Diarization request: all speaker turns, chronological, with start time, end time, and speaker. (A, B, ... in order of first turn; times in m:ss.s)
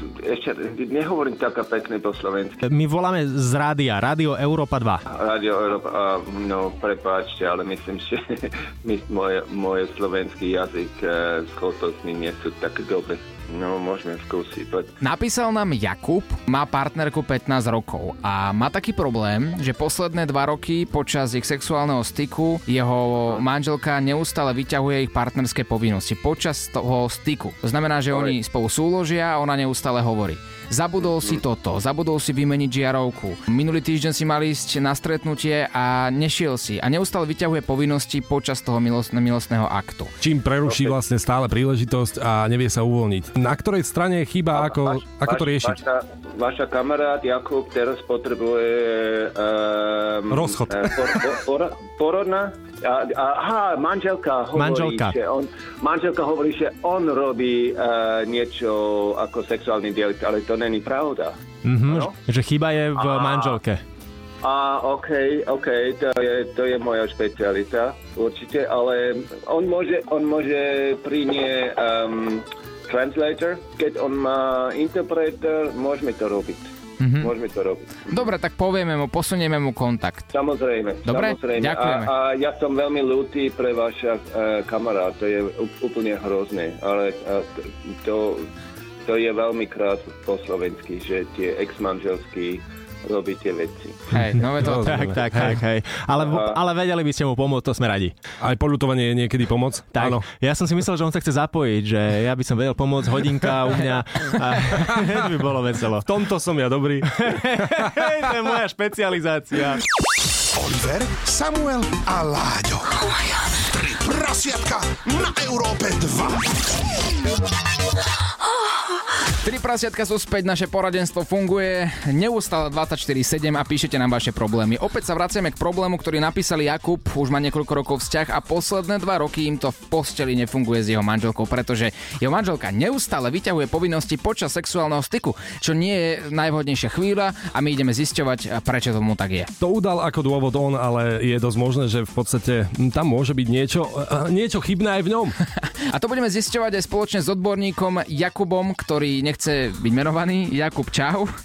0:00.2-0:02.6 A
0:02.6-0:05.0 B
0:05.1-0:14.9 A
0:15.0-0:40.1 C
0:40.2-0:45.8 D
0:40.7-0:40.9 A
0:44.5-1:02.1 A
0:50.3-0:51.2 D
0:54.6-0:55.2 B
1:01.6-1:03.8 B
1:03.0-1:03.6 A
1:04.4-1:16.7 A
1:17.0-1:17.3 C
1:17.2-1:18.3 A
1:18.1-1:20.3 C
1:20.3-1:28.5 A
1:21.1-1:22.1 C
1:29.0-1:34.0 A
1:34.1-1:35.1 C
1:34.5-1:35.6 D
1:34.6-1:38.1 B
1:36.2-1:36.6 A
1:38.4-1:40.2 D
1:39.9-1:46.1 B
1:46.0-1:48.1 D
1:47.2-1:49.8 B
1:50.6-1:56.7 E
1:59.4-2:19.5 C
2:19.6-2:25.4 D
2:25.9-2:31.3 C